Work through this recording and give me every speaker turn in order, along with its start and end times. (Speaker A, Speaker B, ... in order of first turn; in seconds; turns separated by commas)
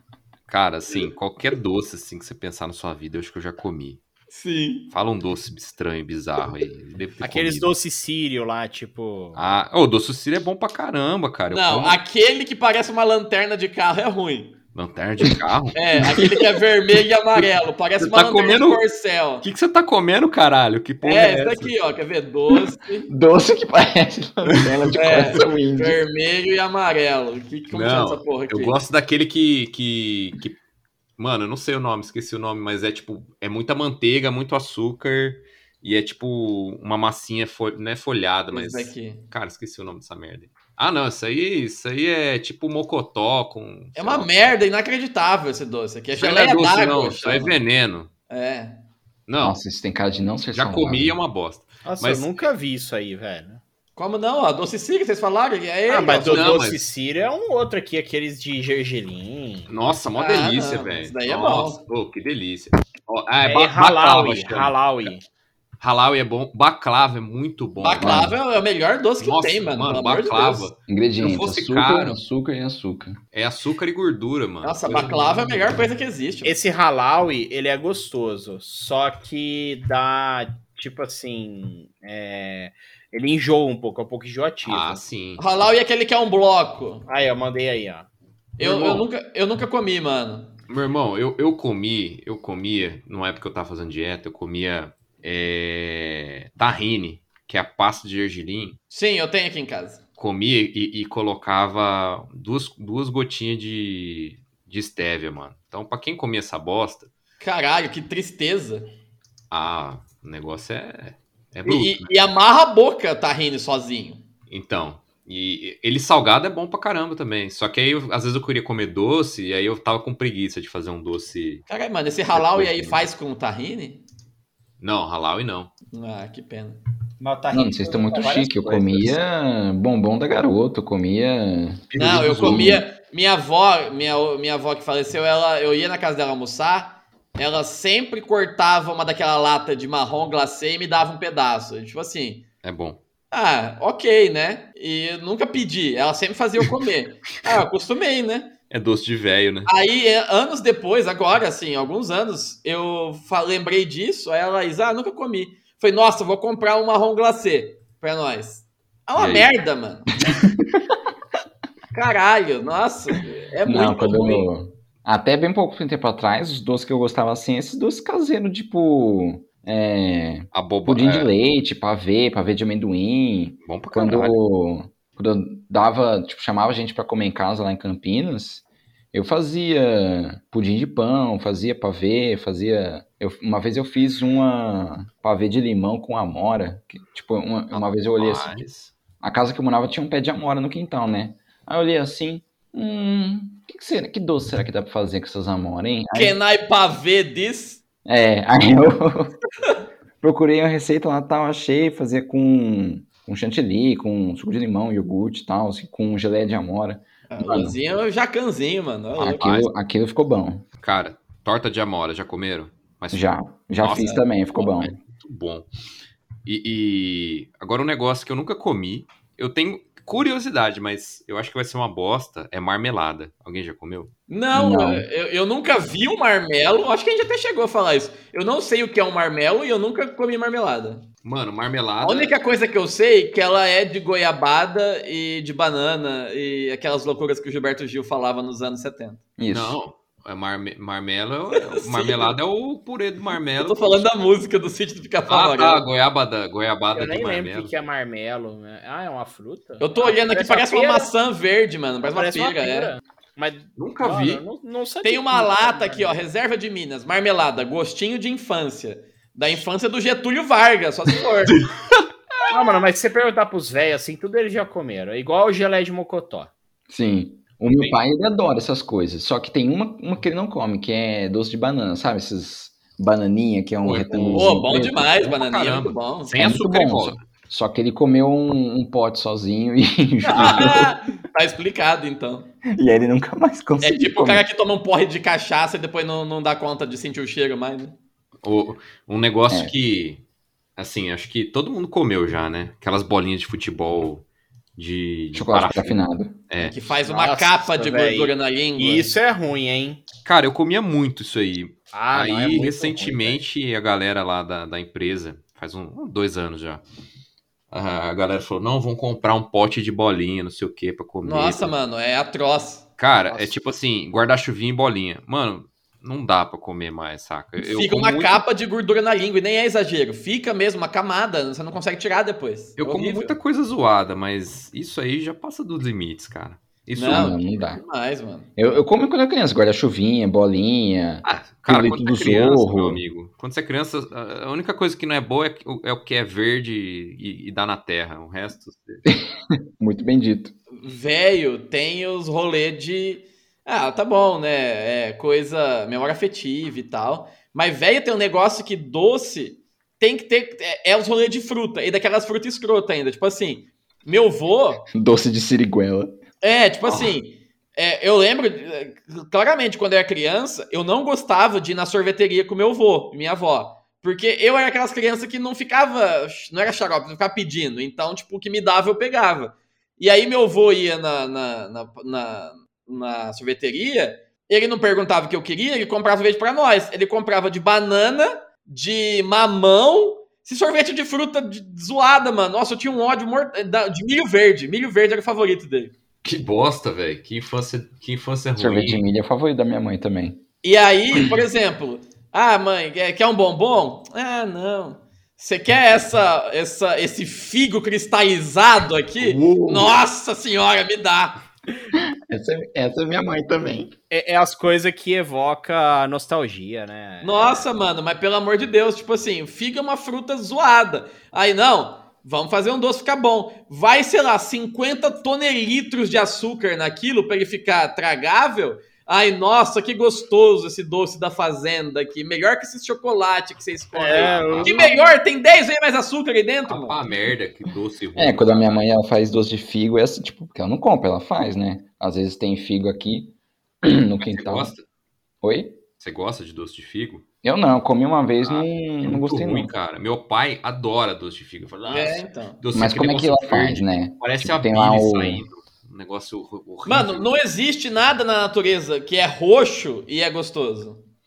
Speaker A: 0.5-4.0, Speaker B: 4.3-4.9, Speaker A: 4.9-7.7, Speaker C: 7.2-9.4, Speaker A: 9.4-12.0, Speaker B: 11.5-14.6, Speaker A: 14.7-15.8, Speaker B: 15.8-19.4, Speaker D: 16.1-16.4, Speaker A: 18.0-18.8, Speaker A: 19.4-21.7, Speaker B: 21.0-23.1, Speaker D: 23.1-26.0, Speaker A: 24.4-25.4, Speaker B: 24.9-28.8, Speaker A: 27.7-30.6, Speaker A: 31.2-44.3, Speaker B: 38.5-39.2, Speaker B: 44.0-47.6, Speaker A: 46.1-48.1, Speaker B: 48.3-48.8, Speaker A: 49.3-49.6, Speaker D: 49.4-51.2, Speaker A: 50.5-52.5, Speaker C: 51.9-53.6, Speaker B: 54.0-56.6, Speaker C: 55.9-59.7, Speaker A: 56.2-56.8, Speaker A: 59.7-65.1, Speaker B: 60.2-61.8, Speaker C: 63.4-65.2, Speaker A: 65.8-68.3, Speaker B: 67.8-70.7, Speaker D: 68.0-68.3, Speaker A: 69.2-72.2, Speaker D: 70.9-73.2, Speaker A: 73.3-75.6, Speaker B: 74.6-76.6, Speaker C: 76.4-85.0, Speaker A: 84.6-85.5, Speaker B: 85.4-87.1, Speaker C: 87.1-88.1, Speaker A: 88.6-89.1, Speaker B: 88.6-90.6, Speaker A: 90.7-98.8, Speaker B: 98.9-100.0, Speaker A: 100.2-107.1, Speaker B: 107.4-108.9, Speaker A: 109.5-112.1, Speaker B: 111.6-114.2, Speaker A: 114.5-121.6, Speaker B: 121.7-124.0, Speaker A: 122.3-123.0, Speaker A: 124.8-125.7, Speaker B: 125.9-126.8, Speaker C: 127.2-129.2, Speaker D: 127.5-132.8, Speaker A: 131.9-132.8, Speaker B: 131.9-142.4, Speaker A: 142.6-143.0, Speaker B: 143.3-148.5, Speaker A: 148.7-149.7, Speaker B: 149.7-160.2, Speaker A: 159.2-159.5, Speaker B: 161.9-164.5, Speaker D: 163.7-188.6, Speaker A: 170.5-171.3, Speaker A: 173.7-174.4, Speaker A: 187.7-188.9, Speaker D: 189.2-196.4, Speaker B: 196.1-197.8, Speaker D: 198.0-199.3, Speaker D: 200.2-207.8, Speaker B: 207.3-209.5, Speaker D: 209.2-210.7, Speaker A: 209.4-209.7, Speaker A: 210.8-215.7, Speaker D: 213.1-214.9, Speaker B: 213.8-214.2, Speaker A: 216.4-224.1, Speaker B: 224.3-231.1, Speaker D: 224.5-225.1, Speaker A: 231.2-232.3, Speaker B: 232.0-239.2, Speaker D: 239.4-239.8, Speaker A: 239.5-244.1, Speaker B: 241.5-242.4, Speaker B: 243.6-245.8, Speaker A: 245.3-247.8, Speaker C: 246.9-251.1, Speaker B: 249.8-252.9, Speaker C: 252.0-256.2, Speaker A: 253.8-254.4, Speaker B: 255.0-261.6, Speaker A: 261.5-262.1, Speaker C: 262.5-266.5, Speaker D: 266.9-275.3, Speaker A: 273.8-274.6, Speaker B: 274.3-276.3, Speaker A: 275.2-277.2, Speaker D: 276.4-281.0, Speaker B: 280.2-282.5, Speaker A: 280.4-280.7, Speaker D: 282.7-284.5, Speaker B: 283.8-288.0, Speaker A: 288.4-290.2, Speaker A: 290.8-294.2, Speaker A: 294.8-296.8, Speaker D: 295.3-296.4, Speaker B: 296.6-299.1, Speaker C: 297.0-300.0, Speaker A: 300.2-306.8, Speaker C: 301.9-303.4, Speaker A: 307.7-311.7, Speaker B: 311.2-312.9, Speaker A: 313.0-318.4, Speaker C: 313.3-313.5, Speaker B: 317.6-323.3, Speaker A: 322.8-327.4, Speaker B: 326.9-328.5, Speaker D: 327.0-327.8, Speaker D: 328.6-333.0, Speaker A: 331.2-339.0, Speaker D: 339.1-340.5, Speaker B: 340.7-354.9, Speaker D: 354.9-356.2, Speaker B: 356.4-385.9, Speaker A: 386.2-389.0, Speaker D: 388.6-390.4, Speaker B: 390.6-401.4, Speaker A: 399.2-399.9, Speaker D: 401.9-403.9, Speaker C: 404.1-407.6, Speaker B: 407.2-427.0, Speaker C: 423.9-424.9, Speaker A: 424.1-424.8, Speaker D: 424.7-425.0, Speaker A: 426.7-428.8, Speaker D: 428.1-434.7, Speaker A: 434.2-434.8, Speaker D: 435.4-435.8, Speaker A: 436.0-437.2, Speaker D: 437.4-439.7, Speaker A: 438.4-447.3, Speaker B: 441.9-442.6, Speaker D: 442.7-445.4, Speaker B: 446.9-451.0